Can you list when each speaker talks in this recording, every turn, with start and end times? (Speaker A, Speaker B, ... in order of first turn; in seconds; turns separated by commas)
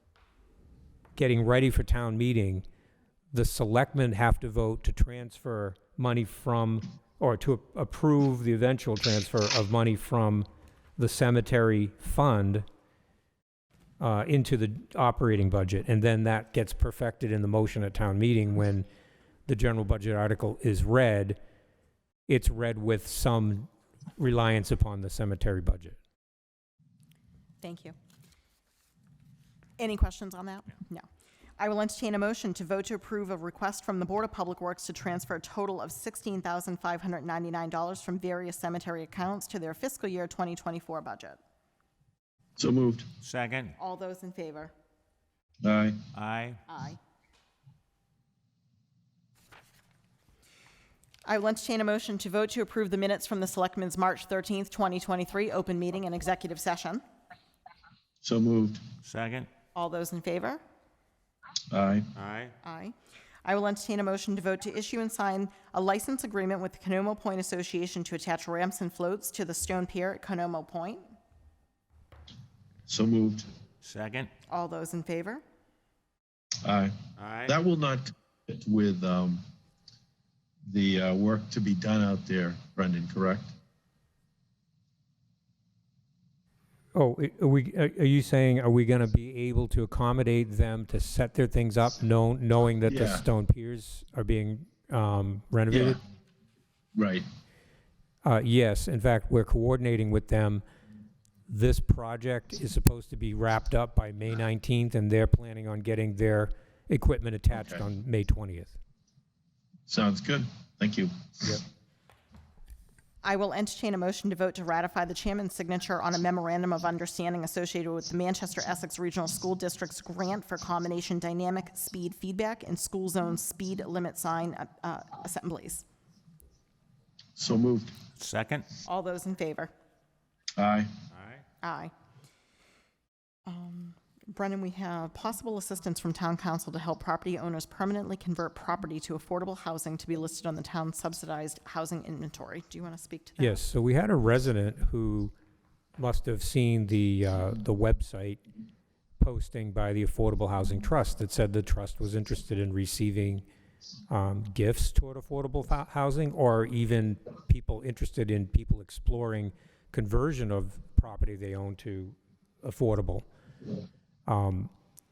Speaker A: 1.2-2.6, Speaker A: 3.3-12.7, Speaker A: 14.0-18.9, Speaker A: 19.5-21.4, Speaker A: 22.3-26.0, Speaker B: 27.6-27.9, Speaker B: 29.8-31.1, Speaker B: 31.6-41.4, Speaker C: 42.6-43.1, Speaker D: 43.2-43.8, Speaker B: 43.8-44.7, Speaker C: 45.6-46.0, Speaker D: 46.1-46.6, Speaker B: 46.7-47.0, Speaker B: 51.3-57.0, Speaker C: 58.2-58.8, Speaker D: 59.0-59.5, Speaker B: 59.8-60.6, Speaker C: 61.7-62.1, Speaker D: 62.1-62.5, Speaker B: 62.6-62.9, Speaker B: 63.5-71.1, Speaker C: 72.9-73.5, Speaker D: 73.8-74.3, Speaker B: 74.5-75.4, Speaker C: 76.6-79.4, Speaker D: 77.2-77.5, Speaker C: 80.7-83.5, Speaker A: 87.0-96.0, Speaker C: 92.9-93.3, Speaker C: 95.7-96.0, Speaker C: 97.0-97.3, Speaker A: 98.2-100.6, Speaker A: 101.5-108.8, Speaker C: 107.5-107.8, Speaker C: 109.9-111.6, Speaker B: 113.2-125.8, Speaker C: 127.4-128.0, Speaker D: 128.2-128.7, Speaker B: 128.9-129.7, Speaker C: 130.6-130.9, Speaker D: 131.1-131.4, Speaker B: 131.6-131.9, Speaker B: 133.5-143.6, Speaker A: 143.4-145.3, Speaker A: 146.0-148.4, Speaker A: 149.2-153.4, Speaker A: 154.1-163.2, Speaker A: 164.3-164.7